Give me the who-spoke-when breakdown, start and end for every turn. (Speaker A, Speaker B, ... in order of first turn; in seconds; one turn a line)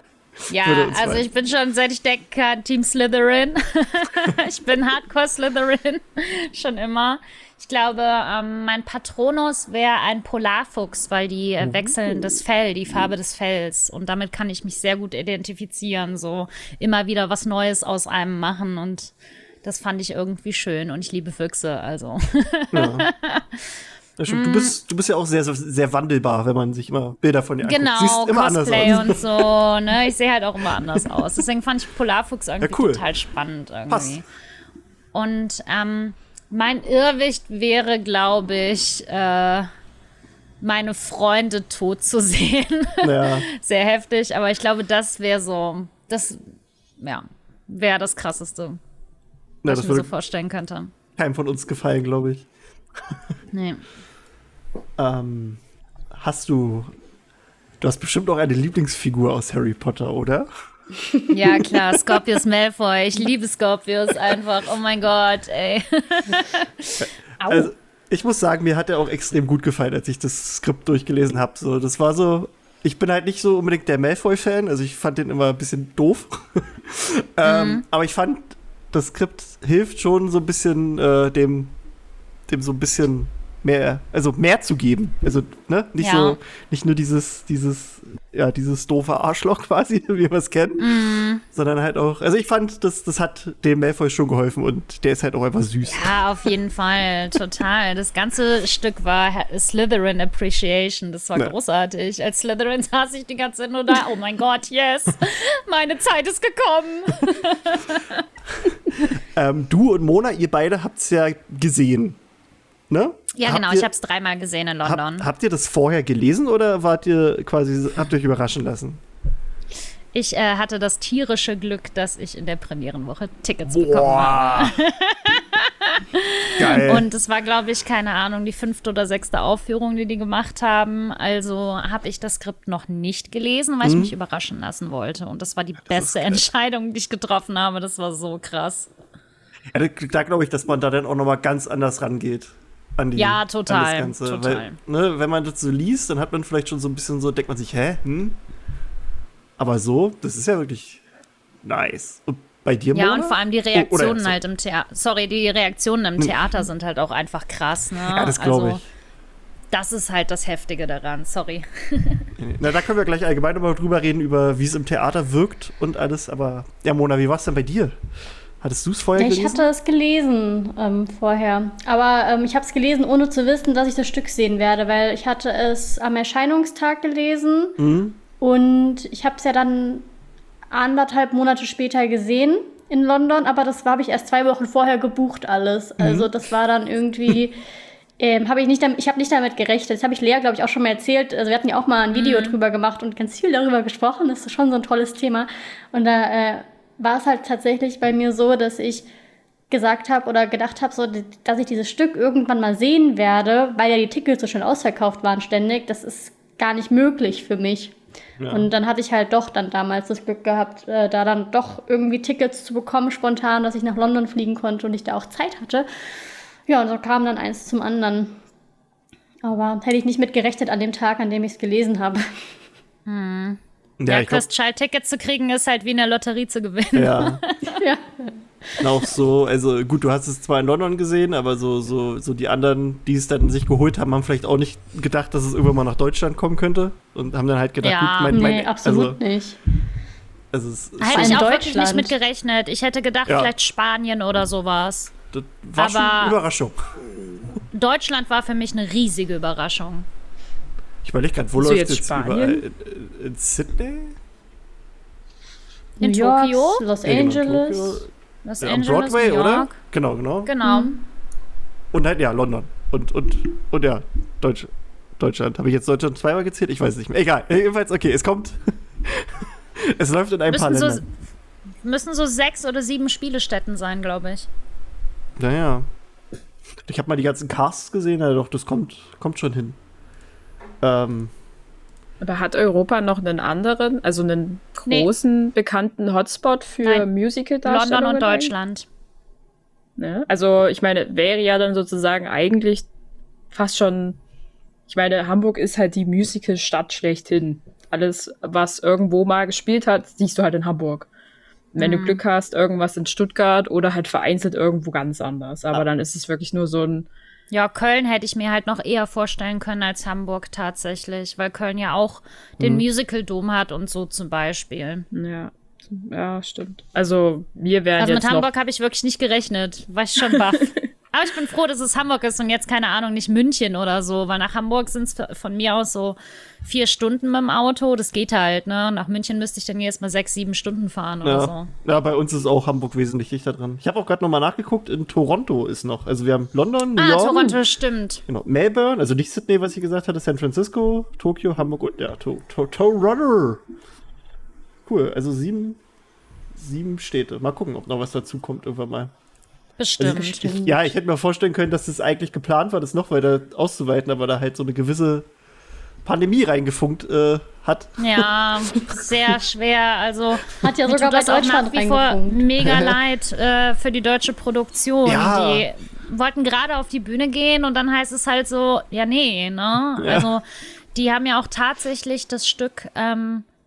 Speaker A: 0.5-19.1
Speaker B: 0.6-1.2
Speaker B: 11.6-11.9
Speaker A: 19.6-24.8
Speaker B: 22.7-23.1
Speaker B: 24.2-29.4
Speaker A: 27.6-34.2
Speaker B: 30.9-31.2
Speaker B: 32.6-33.0
Speaker B: 33.9-34.2
Speaker A: 35.1-39.7
Speaker A: 40.6-48.8
Speaker B: 43.0-43.5
Speaker B: 49.6-50.1
Speaker A: 49.6-50.9
Speaker B: 51.2-52.5
Speaker A: 53.5-53.9
Speaker B: 55.0-55.6
Speaker B: 56.1-56.9
Speaker B: 57.8-60.5
Speaker A: 61.3-67.7
Speaker B: 67.0-81.7
Speaker A: 77.4-77.8
Speaker B: 82.5-90.9
Speaker A: 86.0-86.4
Speaker A: 90.8-91.4
Speaker B: 91.4-96.2
Speaker A: 95.9-108.1
Speaker B: 109.1-112.2
Speaker B: 112.9-113.9
Speaker A: 113.3-115.3
Speaker B: 114.8-119.0
Speaker A: 120.1-138.9
Speaker B: 123.7-124.8
Speaker B: 126.6-127.1
Speaker B: 133.8-134.1
Speaker B: 135.9-136.4
Speaker B: 139.7-148.4
Speaker A: 143.1-144.8
Speaker B: 149.6-151.0
Speaker B: 151.6-154.4
Speaker A: 152.9-158.8
Speaker B: 158.0-158.8
Speaker A: 159.7-162.2
Speaker B: 162.4-168.0
Speaker B: 168.6-169.6
Speaker C: 169.2-177.8
Speaker B: 177.8-178.2
Speaker C: 178.4-180.1
Speaker C: 180.7-187.6
Speaker B: 186.0-186.3
Speaker C: 188.2-199.1
Speaker A: 192.1-192.6
Speaker C: 199.7-207.9
Speaker B: 208.4-208.7
Speaker C: 208.5-215.9
Speaker C: 216.7-218.4
Speaker C: 219.4-222.2
Speaker A: 223.1-227.8
Speaker B: 224.0-224.4
Speaker B: 226.9-227.4
Speaker C: 227.8-228.3
Speaker B: 228.8-239.2
Speaker A: 237.8-238.5
Speaker C: 238.3-239.6
Speaker B: 240.5-241.5
Speaker A: 241.0-245.1
Speaker C: 241.1-242.1
Speaker B: 243.3-243.5
Speaker B: 245.3-247.6
Speaker A: 245.8-246.3
Speaker A: 247.7-250.1
Speaker B: 251.0-254.2
Speaker D: 251.6-252.6
Speaker C: 256.0-258.0
Speaker A: 256.0-256.8
Speaker B: 257.0-258.1
Speaker A: 258.4-259.8
Speaker B: 258.6-260.5
Speaker A: 260.4-260.9
Speaker C: 260.6-261.0
Speaker B: 261.9-271.0
Speaker A: 270.5-271.0
Speaker A: 271.8-274.5
Speaker B: 275.4-275.9
Speaker B: 276.8-279.8
Speaker B: 280.8-281.3
Speaker D: 282.2-288.5
Speaker A: 287.6-288.9
Speaker D: 290.0-292.9
Speaker D: 293.5-294.2
Speaker D: 294.9-301.1
Speaker D: 301.7-307.1
Speaker A: 301.8-302.2
Speaker A: 307.5-315.1
Speaker B: 312.6-312.8
Speaker D: 315.1-318.5
Speaker A: 318.0-331.7
Speaker B: 331.2-337.6
Speaker A: 337.0-338.2
Speaker B: 338.3-343.6
Speaker B: 344.9-345.8
Speaker B: 346.5-349.1
Speaker A: 349.8-350.5
Speaker B: 350.0-355.3
Speaker C: 350.1-350.8
Speaker B: 356.0-358.3
Speaker A: 358.0-370.4
Speaker C: 360.6-362.4
Speaker B: 362.6-362.9
Speaker B: 365.0-365.6
Speaker B: 370.0-370.3
Speaker A: 370.9-373.4